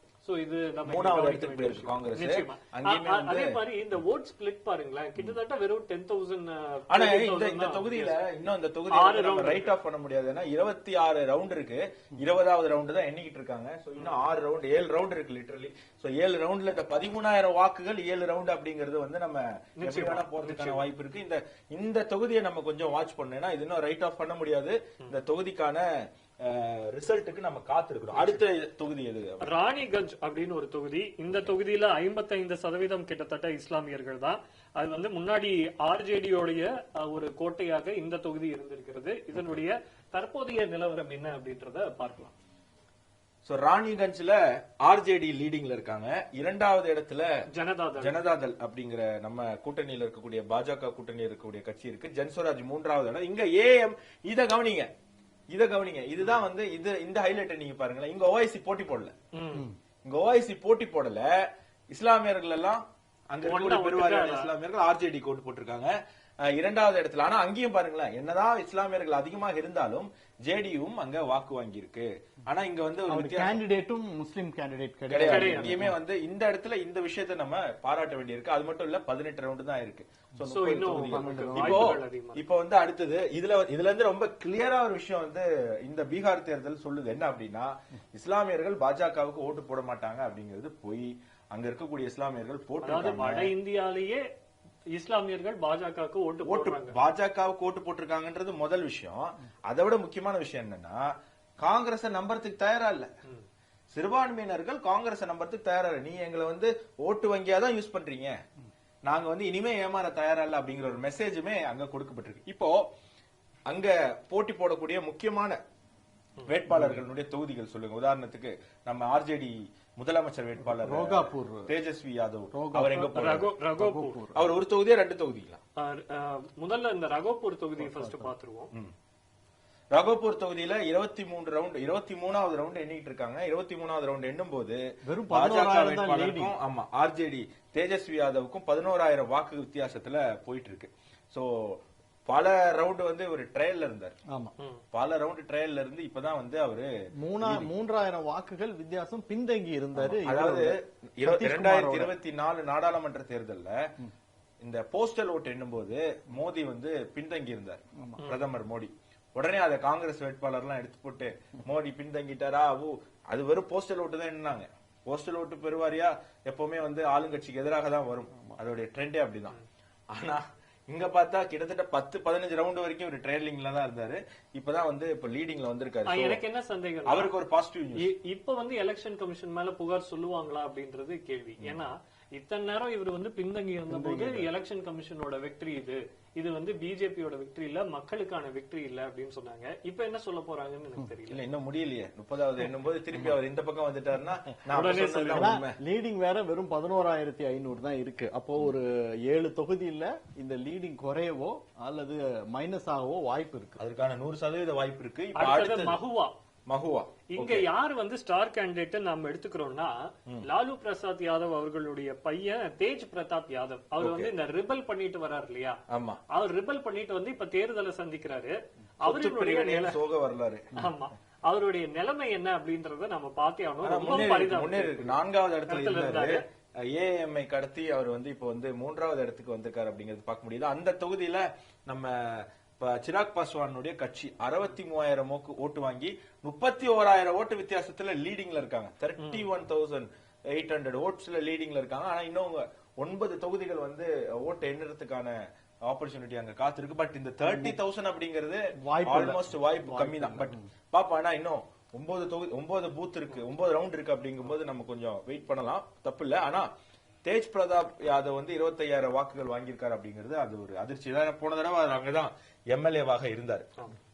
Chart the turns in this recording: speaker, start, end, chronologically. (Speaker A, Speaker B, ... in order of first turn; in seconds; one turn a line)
Speaker A: 0.2-8.2
Speaker B: 0.9-3.6
Speaker B: 6.9-29.5
Speaker A: 8.9-9.7
Speaker A: 14.0-14.2
Speaker A: 19.8-20.9
Speaker A: 28.1-28.4
Speaker A: 29.4-42.3
Speaker B: 43.5-47.4
Speaker A: 47.5-48.2
Speaker B: 48.0-54.9
Speaker B: 55.5-59.1
Speaker A: 59.3-59.7
Speaker B: 60.0-73.6
Speaker A: 63.4-64.5
Speaker C: 73.1-76.0
Speaker B: 75.1-93.5
Speaker A: 75.2-75.9
Speaker A: 80.4-82.4
Speaker C: 80.9-82.0
Speaker A: 92.8-94.3
Speaker A: 94.9-97.0
Speaker B: 96.5-103.1
Speaker B: 103.9-108.4
Speaker B: 109.1-112.9
Speaker B: 113.7-115.6
Speaker B: 116.5-123.5
Speaker C: 116.7-117.0
Speaker C: 120.6-121.7
Speaker C: 122.5-123.1
Speaker A: 123.0-124.2
Speaker C: 123.8-124.5
Speaker B: 124.3-125.6
Speaker A: 125.8-128.7
Speaker C: 127.8-128.3
Speaker B: 129.9-144.2
Speaker C: 135.1-136.5
Speaker C: 144.3-144.5
Speaker B: 144.9-146.9
Speaker C: 147.2-152.1
Speaker B: 147.4-147.7
Speaker B: 150.0-153.9
Speaker B: 154.6-169.6
Speaker C: 158.0-158.2
Speaker A: 158.2-158.4
Speaker B: 170.1-176.4
Speaker A: 176.1-177.3
Speaker B: 177.1-178.1
Speaker A: 178.0-191.4
Speaker C: 183.9-184.5
Speaker B: 191.3-195.8
Speaker A: 194.7-195.6
Speaker C: 195.3-203.8
Speaker B: 203.8-206.0
Speaker A: 205.3-206.3
Speaker B: 206.7-207.7
Speaker A: 207.3-220.0
Speaker B: 214.0-214.3
Speaker B: 215.9-216.2
Speaker B: 219.1-220.7
Speaker A: 220.7-225.2
Speaker B: 223.8-256.7
Speaker A: 225.7-226.4
Speaker A: 239.2-239.5
Speaker C: 247.5-247.8
Speaker C: 248.8-250.7
Speaker B: 257.2-263.7